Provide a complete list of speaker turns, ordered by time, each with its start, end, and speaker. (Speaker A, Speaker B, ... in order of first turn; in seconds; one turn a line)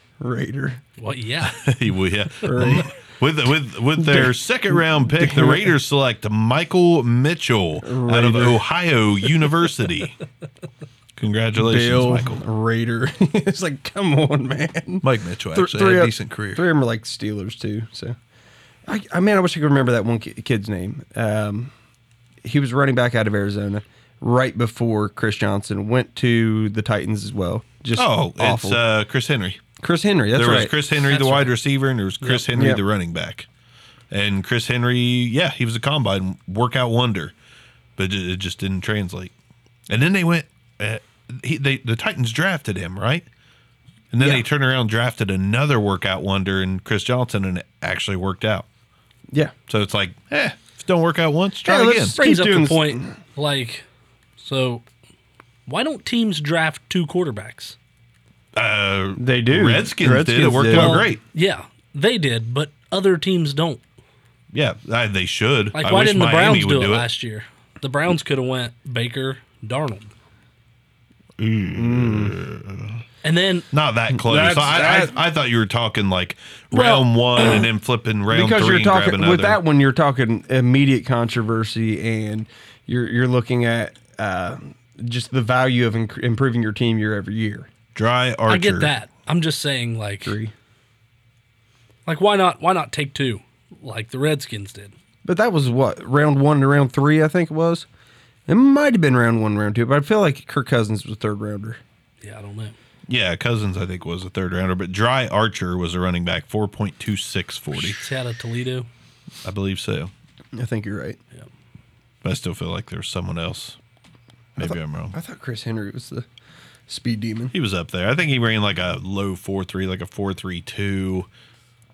Speaker A: 0.2-0.8
Speaker B: 1.0-1.6
Speaker C: 1.4-10.2
Speaker A: 2.4-2.9
Speaker A: 4.0-5.7
Speaker A: 7.8-8.6
Speaker C: 11.2-12.4
Speaker A: 11.6-18.1
Speaker C: 15.0-16.6
Speaker A: 18.9-21.7
Speaker A: 22.4-28.8
Speaker C: 27.9-29.6
Speaker A: 29.8-30.7
Speaker C: 30.3-33.5
Speaker B: 31.1-31.5
Speaker A: 32.5-32.8
Speaker C: 34.1-37.3
Speaker C: 38.0-39.3
Speaker C: 39.9-43.2
Speaker C: 44.1-48.6
Speaker A: 44.2-44.4
Speaker C: 49.7-52.2
Speaker A: 51.6-53.1
Speaker B: 52.1-53.8
Speaker B: 54.4-54.8
Speaker B: 55.7-57.8
Speaker C: 58.5-61.2
Speaker A: 59.2-61.1
Speaker B: 60.7-63.8
Speaker C: 64.5-67.1
Speaker B: 65.7-70.1
Speaker C: 71.4-73.0
Speaker A: 71.7-72.4
Speaker B: 73.2-73.7
Speaker C: 73.7-79.6
Speaker A: 74.1-75.1
Speaker A: 76.7-77.7
Speaker A: 78.3-87.7
Speaker C: 87.9-88.9
Speaker B: 88.5-90.4
Speaker A: 90.2-90.5
Speaker B: 92.0-94.9
Speaker A: 95.2-97.8
Speaker A: 98.5-101.8
Speaker B: 102.2-102.7
Speaker C: 103.1-108.0
Speaker B: 107.7-108.9
Speaker C: 109.4-110.1
Speaker A: 110.5-111.2
Speaker C: 112.2-113.8
Speaker C: 114.5-115.1
Speaker A: 114.6-116.2
Speaker A: 116.9-117.5
Speaker C: 117.5-121.3